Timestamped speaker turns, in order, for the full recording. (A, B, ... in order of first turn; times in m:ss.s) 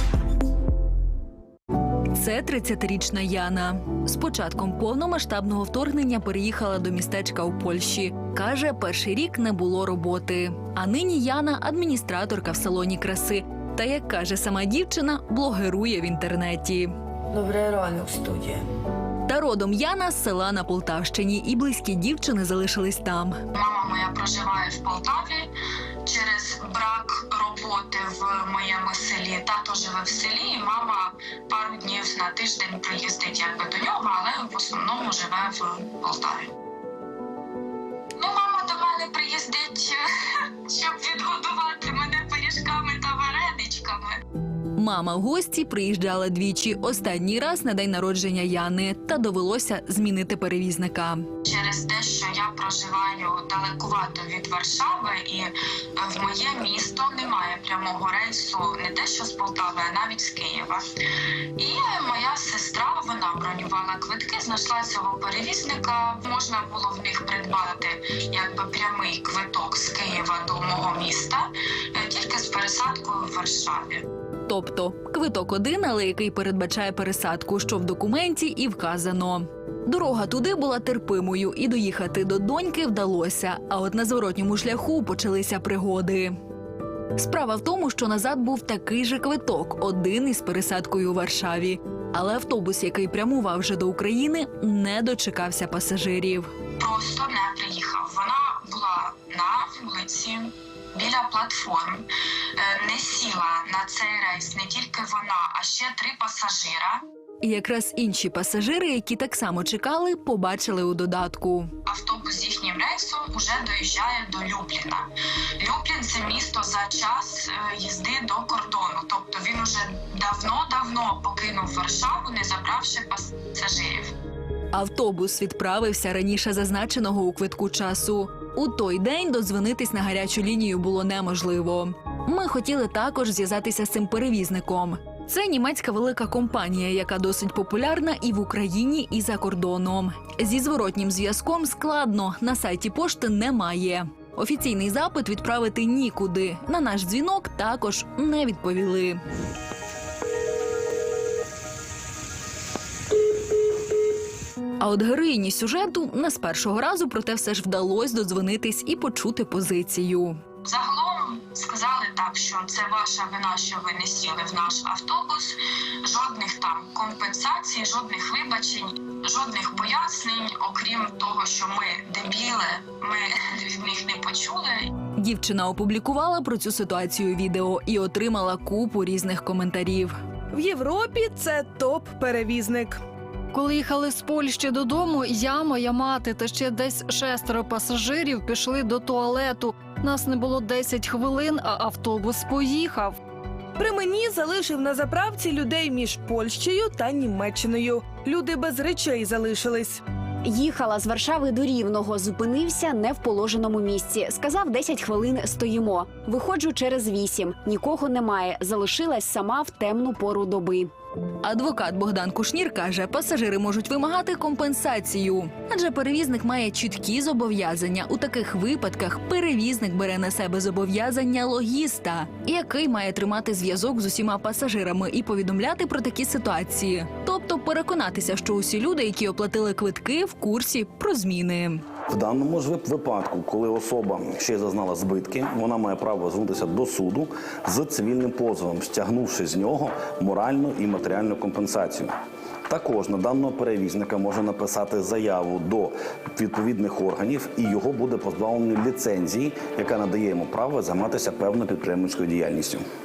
0:02.1-0:17.0 A
0:19.3-0:23.4 A
0:23.5-0:25.5 B
0:26.0-0:36.5 B
0:38.2-0:44.2 B
0:44.8-0:51.3 A
0:51.4-1:14.1 B
1:14.5-1:26.4 A
1:27.2-1:36.5 A
1:36.8-1:47.0 B
1:47.4-1:51.7 A
1:51.9-2:04.2 B
2:04.7-2:29.2 A
2:34.8-2:40.4 A
2:40.6-2:55.0 B
2:55.1-3:00.2 A
3:00.5-3:03.0 C
3:03.5-3:13.2 D
3:13.8-3:20.0 C
3:20.4-3:30.9 E
3:31.4-3:51.8 A
3:52.1-4:02.1 F
4:02.7-4:12.8 F